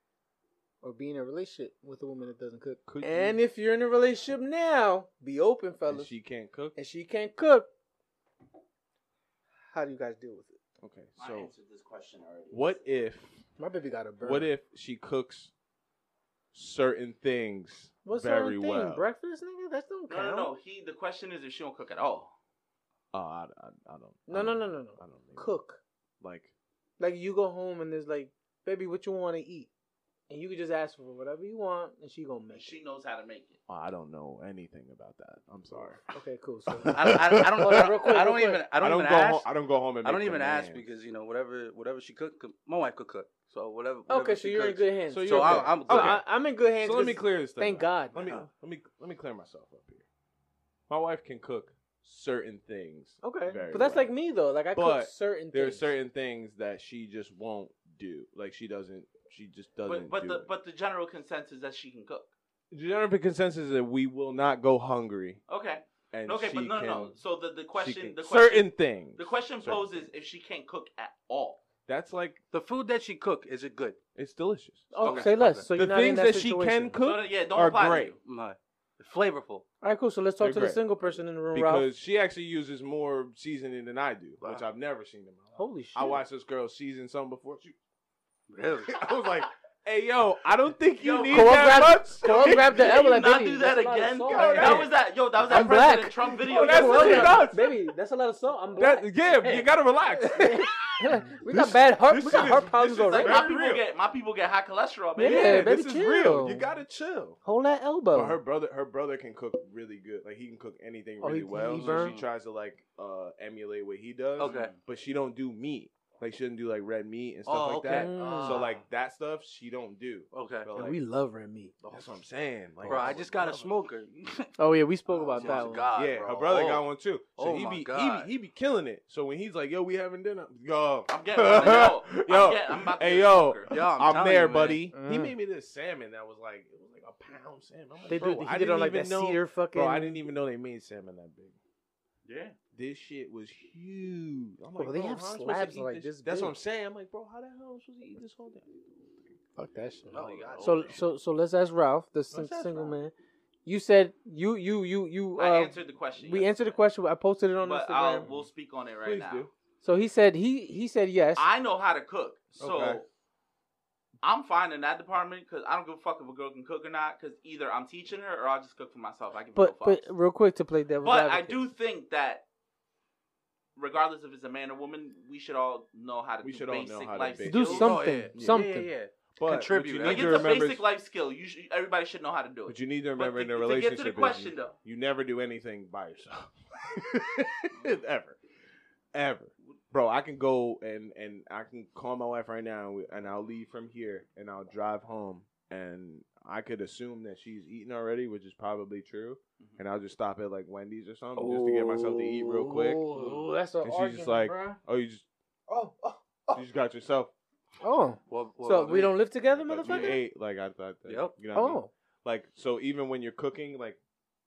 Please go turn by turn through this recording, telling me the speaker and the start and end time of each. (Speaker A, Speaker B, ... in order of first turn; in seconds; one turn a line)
Speaker A: 0.8-6.1
Speaker B: 2.9-3.4
Speaker B: 5.9-6.8
Speaker A: 6.8-7.7
Speaker A: 9.7-10.6
Speaker B: 10.8-11.5
Speaker C: 11.2-12.8
Speaker B: 12.5-13.4
Speaker A: 13.6-14.5
Speaker B: 14.2-15.5
Speaker B: 16.5-19.1
Speaker A: 18.0-20.5
Speaker C: 20.1-22.3
Speaker B: 23.1-25.5
Speaker A: 24.3-25.8
Speaker B: 26.2-26.5
Speaker A: 27.0-29.7
Speaker A: 30.3-32.8
Speaker C: 32.5-33.6
Speaker B: 33.7-36.0
Speaker A: 35.8-38.6
Speaker B: 36.8-38.0
Speaker D: 36.9-39.5
Speaker B: 38.8-40.9
Speaker D: 40.0-46.2
Speaker A: 44.1-48.2
Speaker B: 45.1-46.2
Speaker B: 46.8-50.0
Speaker B: 50.9-54.1
Speaker A: 53.2-55.9
Speaker B: 54.7-60.5
Speaker C: 59.9-62.3
Speaker B: 62.7-65.4
Speaker C: 65.5-71.6
Speaker B: 66.1-67.2
Speaker B: 67.7-70.0
Speaker B: 71.9-72.4
Speaker D: 72.5-74.0
Speaker B: 74.2-78.2
Speaker A: 74.9-77.0
Speaker D: 75.0-75.7
Speaker C: 77.0-78.2
Speaker D: 78.2-79.6
Speaker A: 79.8-81.9
Speaker B: 80.4-87.8
Speaker A: 85.5-86.2
Speaker D: 88.5-89.0
Speaker B: 88.8-92.8
Speaker C: 91.0-97.5
Speaker A: 91.3-94.9
Speaker B: 94.3-95.7
Speaker A: 95.4-99.6
Speaker B: 96.2-97.7
Speaker B: 98.8-103.8
Speaker A: 100.3-103.4
Speaker C: 103.1-105.7
Speaker A: 105.2-106.7
Speaker B: 105.2-107.4
Speaker A: 107.4-108.4
Speaker B: 108.1-121.0
Speaker A: 111.2-112.1
Speaker D: 111.7-112.2
Speaker D: 114.4-114.8
Speaker C: 114.4-114.8
Speaker D: 117.5-118.7
Speaker A: 117.9-118.6
Speaker C: 118.2-118.7
Speaker D: 120.3-120.7
Speaker A: 120.7-121.7
Speaker B: 121.8-123.7
Speaker D: 122.8-124.5
Speaker A: 124.6-125.9
Speaker D: 125.3-126.8
Speaker B: 125.3-141.6
Speaker D: 127.4-128.3
Speaker C: 131.1-133.8
Speaker D: 133.7-134.9
Speaker A: 134.9-135.3
Speaker A: 138.1-140.2
Speaker C: 142.2-142.6
Speaker B: 142.7-149.4
Speaker A: 144.8-146.5
Speaker A: 149.6-153.1
Speaker B: 150.1-151.0
Speaker D: 150.1-151.0
Speaker B: 152.3-152.9
Speaker A: 153.6-158.3
Speaker C: 155.3-156.8
Speaker C: 157.6-159.4
Speaker B: 159.0-159.5
Speaker A: 159.8-161.4
Speaker C: 161.3-163.1
Speaker B: 162.6-163.0
Speaker C: 164.2-170.1
Speaker A: 169.5-171.6
Speaker C: 171.0-172.4
Speaker C: 173.8-178.0
Speaker B: 176.4-178.7
Speaker A: 177.4-178.9
Speaker D: 177.8-180.6
Speaker B: 179.4-180.8
Speaker C: 180.0-184.7
Speaker B: 182.7-188.4
Speaker B: 189.1-203.0
Speaker A: 201.3-204.8
Speaker D: 203.1-203.4
Speaker B: 203.8-205.2
Speaker A: 205.7-206.6
Speaker B: 206.5-207.3
Speaker A: 207.8-210.2
Speaker D: 208.3-209.2
Speaker B: 209.5-214.0
Speaker D: 209.8-210.2
Speaker D: 211.1-211.3
Speaker A: 211.5-211.9